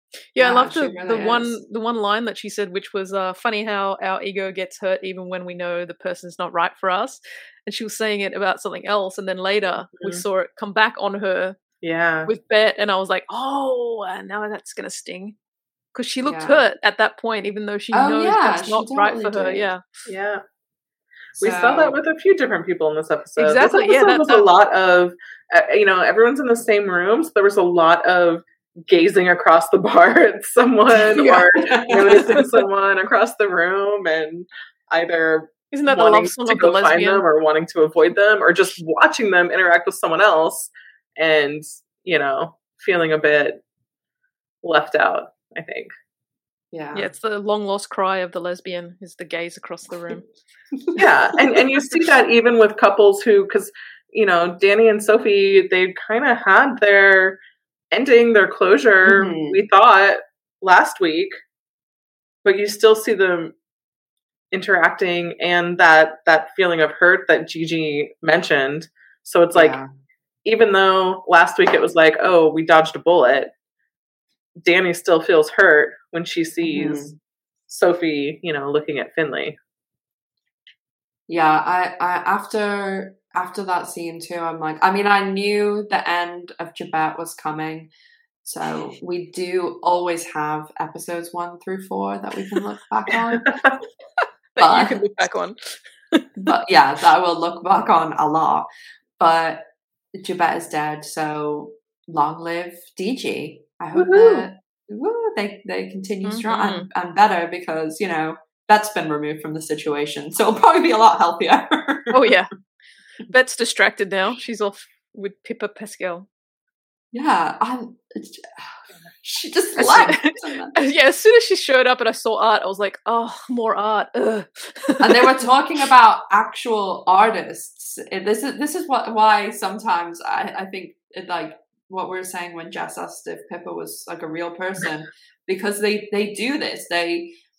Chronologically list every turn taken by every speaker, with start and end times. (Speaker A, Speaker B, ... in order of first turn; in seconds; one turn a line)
Speaker A: 0.3-11.6
Speaker B: 0.4-1.6
Speaker C: 9.9-10.2
Speaker C: 11.8-12.3
Speaker A: 12.3-15.4
Speaker A: 15.9-19.8
Speaker B: 16.2-16.6
Speaker B: 17.9-19.7
Speaker C: 20.1-20.4
Speaker B: 21.4-22.0
Speaker C: 21.4-43.6
Speaker A: 23.4-24.5
Speaker A: 31.1-31.5
Speaker B: 31.7-32.4
Speaker A: 32.1-32.4
Speaker A: 35.7-37.2
Speaker C: 44.6-45.9
Speaker B: 46.7-47.1
Speaker A: 46.9-50.2
Speaker C: 51.0-57.4
Speaker C: 57.9-61.4
Speaker B: 59.0-59.6
Speaker C: 62.4-63.5
Speaker C: 64.5-69.8
Speaker B: 69.5-69.9
Speaker C: 70.4-73.5
Speaker C: 74.6-77.1
Speaker B: 76.6-77.1
Speaker C: 77.7-79.5
Speaker B: 81.3-87.9
Speaker B: 88.4-93.5
Speaker A: 94.5-96.4
Speaker B: 94.6-95.0
Speaker B: 96.4-98.7
Speaker B: 99.2-112.2
Speaker C: 104.0-104.5
Speaker A: 106.2-106.9
Speaker A: 112.1-112.5
Speaker A: 113.3-116.3
Speaker B: 117.1-120.8
Speaker A: 119.8-125.4
Speaker B: 125.0-137.3